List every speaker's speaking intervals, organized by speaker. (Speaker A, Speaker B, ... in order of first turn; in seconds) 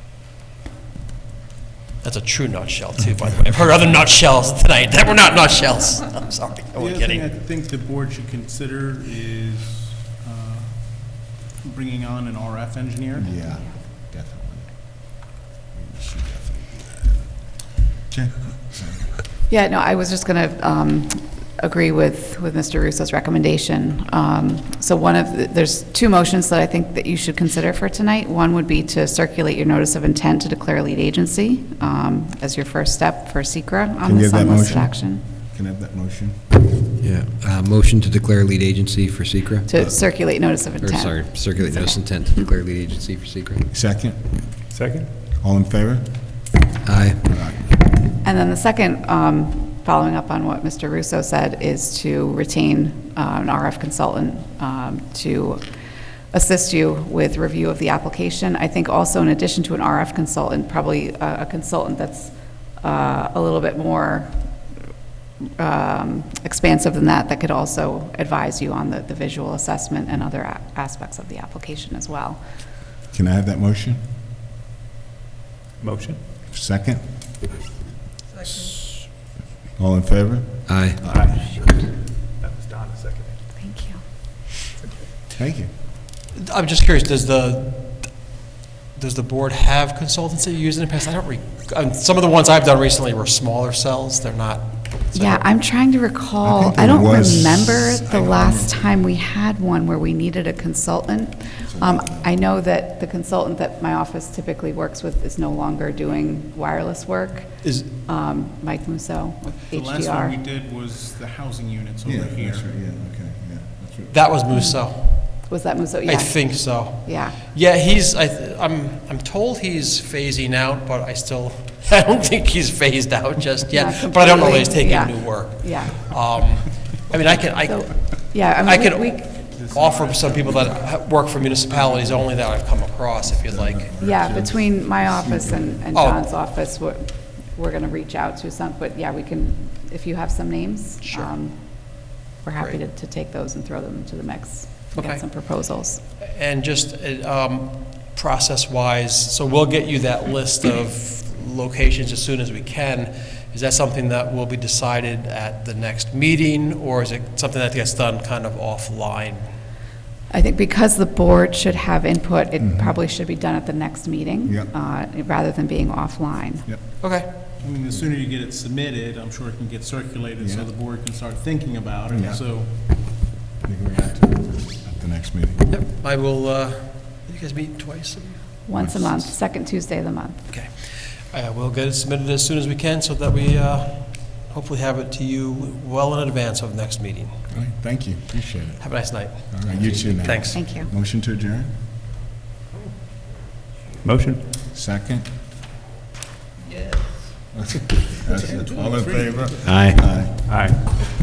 Speaker A: 2.0-7.3, 86.3-88.2, 88.9-95.4, 107.6-107.9, 114.1-133.9, 135.9-136.2, 141.0-141.3, 144.9-145.2, 146.2-159.5, 167.0-167.3, 175.7-178.6, 180.5-187.4, 188.8-190.6
Speaker B: 6.8-13.3, 109.4-112.7, 129.5-130.7, 167.6-172.7, 198.3-199.8
Speaker C: 13.2-19.2, 34.0-36.4, 43.7-44.5, 45.4-46.1, 47.2-47.8, 73.1-74.0, 76.5-77.2, 79.8-81.4, 85.3-85.7, 96.4-98.8, 101.6-102.3, 112.0-114.2, 131.8-132.2, 133.4-135.8, 162.6-163.0, 164.4-164.7, 166.6-167.3, 170.4-170.7, 172.1-172.6, 173.6-175.6, 178.7-179.2, 187.5-191.7, 194.7-195.3, 197.5-201.0
Speaker D: 19.5-35.2, 39.6-42.5, 48.2-64.7, 65.4-72.4, 81.4-81.9, 83.5-84.0, 95.2-110.4, 114.5-117.4, 123.7-126.0, 127.6-129.4, 134.0-146.0, 160.3-166.7, 178.7-180.5, 190.5-190.9
Speaker E: 37.0-39.7, 40.8-43.7, 46.8-47.3, 80.7-81.0, 199.6-200.0
Speaker F: 44.7-45.1, 75.8-76.2, 81.0-81.5, 82.2-83.3, 194.0-194.4, 200.4-200.8